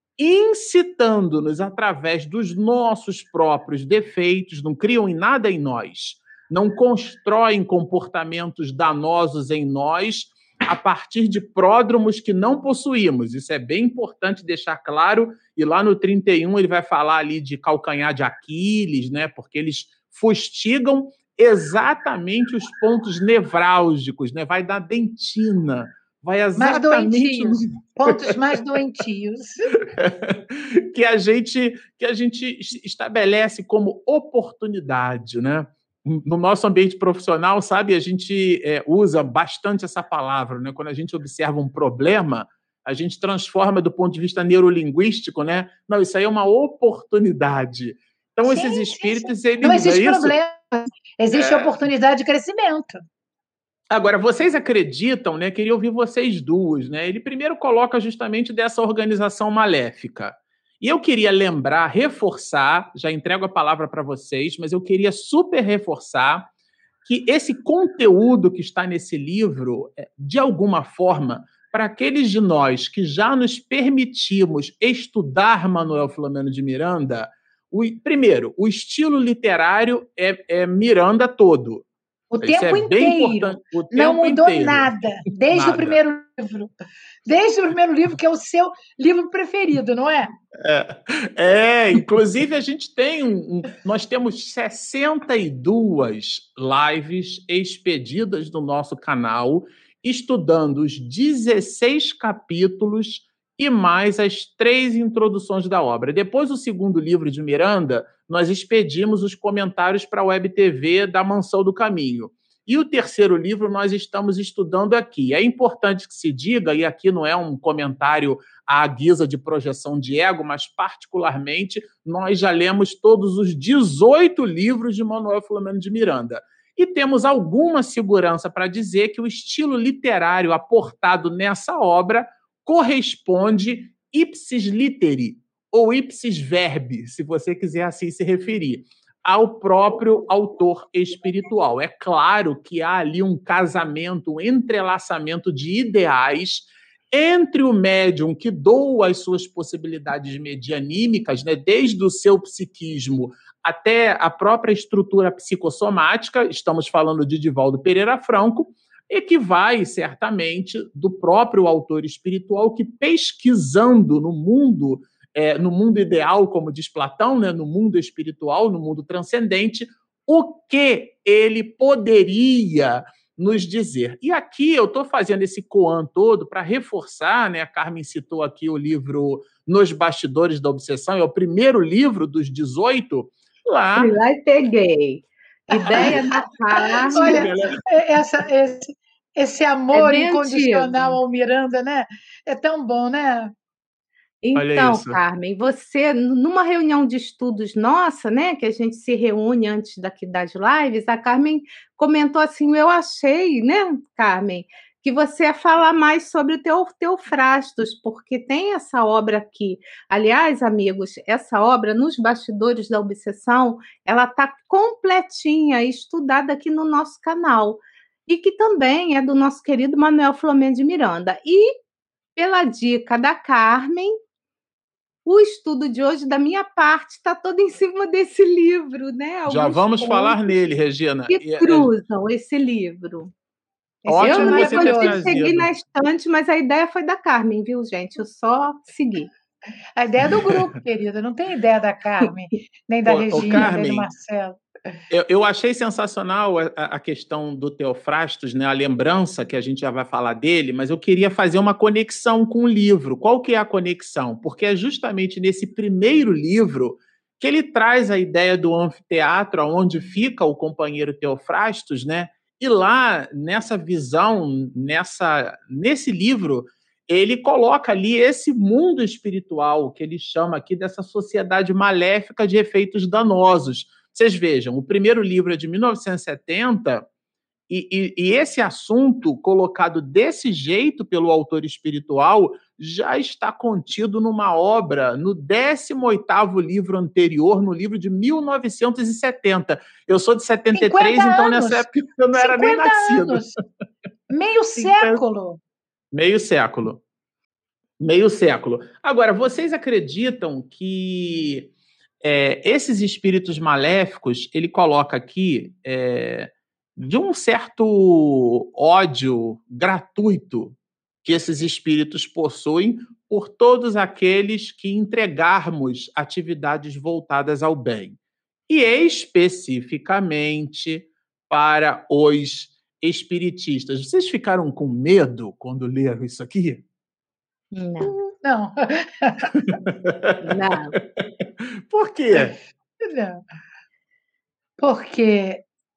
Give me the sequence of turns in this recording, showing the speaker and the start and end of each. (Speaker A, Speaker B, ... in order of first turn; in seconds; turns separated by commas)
Speaker A: 0.2-28.6, Speaker B: 26.6-29.7, Speaker A: 29.8-50.4, Speaker B: 48.5-53.0, Speaker A: 51.3-51.8, Speaker A: 53.9-66.5, Speaker A: 67.0-81.9, Speaker B: 82.3-86.7, Speaker A: 82.4-84.9, Speaker A: 85.5-86.0, Speaker B: 87.3-90.3, Speaker A: 90.6-184.1, Speaker C: 184.0-187.5, Speaker B: 185.7-193.5, Speaker A: 185.9-186.2, Speaker A: 187.1-187.8, Speaker C: 189.9-191.2, Speaker C: 194.4-221.8, Speaker A: 194.6-195.2, Speaker C: 222.4-224.2, Speaker C: 225.3-230.4, Speaker A: 229.5-231.9, Speaker C: 231.3-233.3, Speaker B: 234.1-235.3, Speaker A: 234.1-235.7, Speaker C: 234.2-239.3, Speaker B: 240.0-244.6, Speaker A: 243.1-244.1, Speaker A: 245.1-277.1, Speaker A: 277.7-293.4, Speaker B: 290.7-293.6, Speaker B: 294.3-295.6, Speaker A: 294.8-295.2, Speaker A: 296.1-297.0, Speaker A: 298.0-301.7, Speaker A: 302.2-318.2, Speaker A: 318.7-326.8, Speaker C: 327.7-328.2, Speaker B: 328.0-329.5, Speaker A: 329.6-332.6, Speaker C: 330.4-331.0, Speaker B: 332.3-333.4, Speaker B: 334.8-335.7